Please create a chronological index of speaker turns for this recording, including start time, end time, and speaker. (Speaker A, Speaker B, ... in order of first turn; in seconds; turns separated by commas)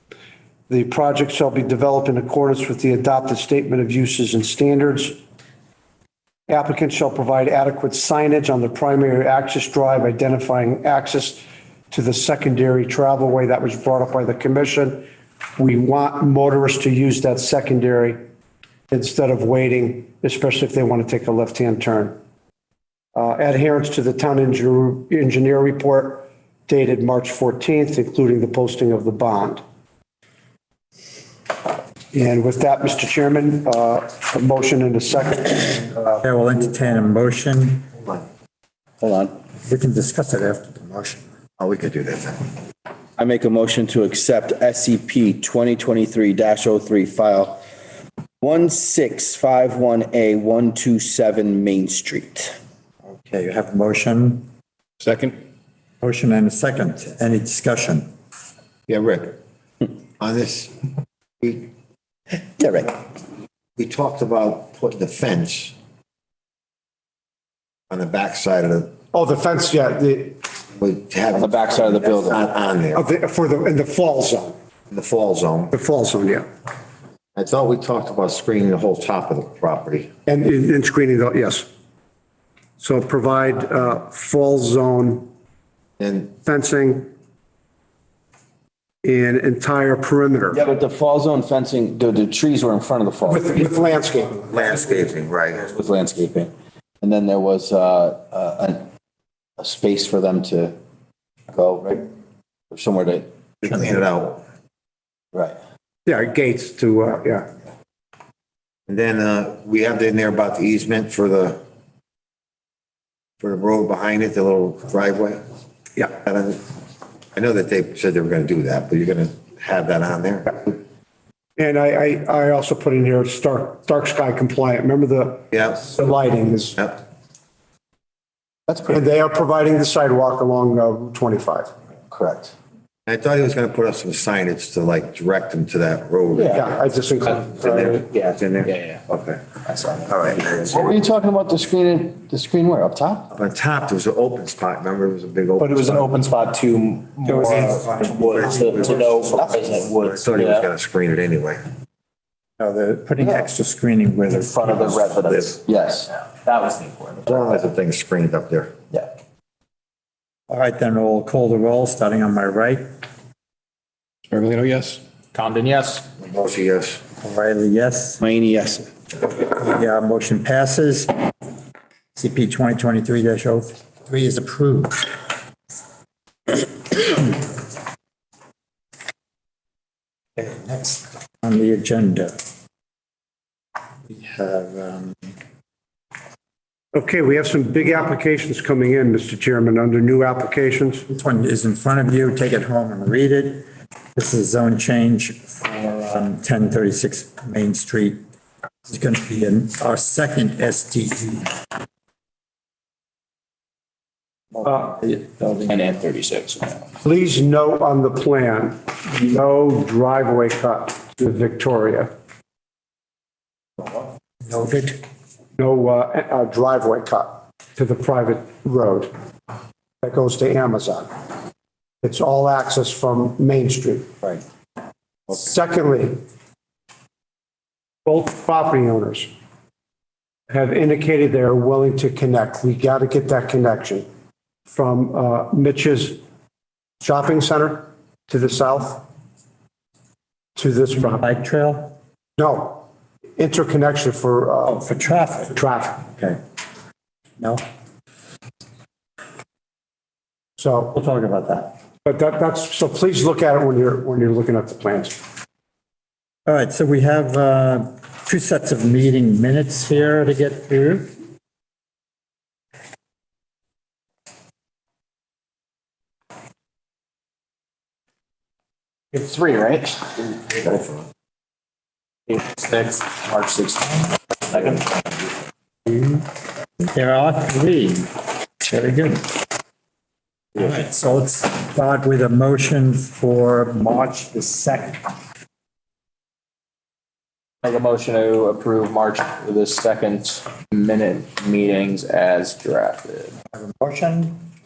Speaker A: 0.7-5.2, Speaker A: 6.5-15.1, Speaker A: 15.6-18.2, Speaker A: 18.9-22.2, Speaker A: 23.1-29.6, Speaker A: 32.1-36.2, Speaker B: 36.2-38.0, Speaker C: 39.0-39.3, Speaker B: 39.6-41.2, Speaker D: 41.6-42.5, Speaker C: 43.2-47.6, Speaker C: 48.4-52.6, Speaker B: 53.1-54.5, Speaker C: 55.0-55.3, Speaker B: 56.0-58.1, Speaker D: 58.9-59.4, Speaker D: 60.2-60.7, Speaker D: 61.4-61.7, Speaker C: 62.6-63.0, Speaker D: 63.8-65.8, Speaker D: 67.9-68.9, Speaker A: 69.1-70.4, Speaker D: 70.8-73.0, Speaker C: 71.3-72.4, Speaker A: 72.9-74.5, Speaker D: 74.9-75.7, Speaker A: 75.7-76.5, Speaker D: 77.3-80.1, Speaker A: 80.3-81.7, Speaker A: 82.8-85.3, Speaker D: 86.0-86.3, Speaker A: 86.4-87.1, Speaker A: 89.0-90.6, Speaker C: 90.5-93.7, Speaker A: 93.3-94.5, Speaker D: 94.5-95.7, Speaker C: 95.6-98.8, Speaker C: 99.6-100.8, Speaker C: 101.5-102.1, Speaker C: 102.7-103.3, Speaker D: 103.6-104.4, Speaker A: 106.1-107.5, Speaker D: 108.9-111.6, Speaker D: 113.4-115.4, Speaker D: 116.0-116.6, Speaker D: 117.3-120.8, Speaker A: 121.6-126.8, Speaker D: 125.5-125.8, Speaker A: 128.8-131.7, Speaker C: 132.1-132.5, Speaker D: 133.1-136.8, Speaker C: 136.3-136.6, Speaker A: 136.5-138.0, Speaker D: 137.5-139.4, Speaker C: 138.7-139.0, Speaker C: 139.7-143.3, Speaker D: 140.1-141.0, Speaker D: 143.3-146.1, Speaker C: 145.6-150.7, Speaker E: 146.0-150.1, Speaker A: 147.3-148.1, Speaker D: 148.2-151.6, Speaker B: 152.6-155.0, Speaker C: 153.2-153.5, Speaker C: 154.3-156.1, Speaker D: 155.2-155.6, Speaker E: 156.5-157.5, Speaker D: 157.3-158.8, Speaker B: 160.5-162.8, Speaker C: 164.3-165.0, Speaker E: 165.3-166.1, Speaker D: 166.2-167.0, Speaker B: 167.2-168.2, Speaker C: 168.2-168.9, Speaker B: 169.3-171.1, Speaker B: 172.2-175.2, Speaker B: 176.9-177.4, Speaker B: 180.4-182.4, Speaker B: 184.1-185.2, Speaker A: 186.9-191.1, Speaker B: 191.1-198.2, Speaker B: 198.9-201.6, Speaker B: 204.5-205.8, Speaker E: 205.7-206.7, Speaker A: 207.0-212.1, Speaker B: 213.8-215.0, Speaker A: 215.6-219.1, Speaker A: 220.0-221.1, Speaker A: 222.0-224.1, Speaker A: 225.3-226.2, Speaker A: 228.1-229.3, Speaker A: 230.5-234.1, Speaker A: 234.7-236.2, Speaker A: 237.0-239.0, Speaker A: 240.6-241.3, Speaker B: 241.0-241.9, Speaker A: 242.4-242.9, Speaker A: 243.4-244.8, Speaker B: 244.7-246.4, Speaker A: 245.5-246.1, Speaker A: 250.6-250.9, Speaker B: 250.9-251.8, Speaker A: 252.1-255.2, Speaker B: 256.5-261.1, Speaker E: 269.1-270.0, Speaker E: 272.3-275.1, Speaker B: 275.9-276.2, Speaker B: 276.9-279.4, Speaker B: 280.6-285.1, Speaker E: 287.6-293.3, Speaker B: 293.5-294.4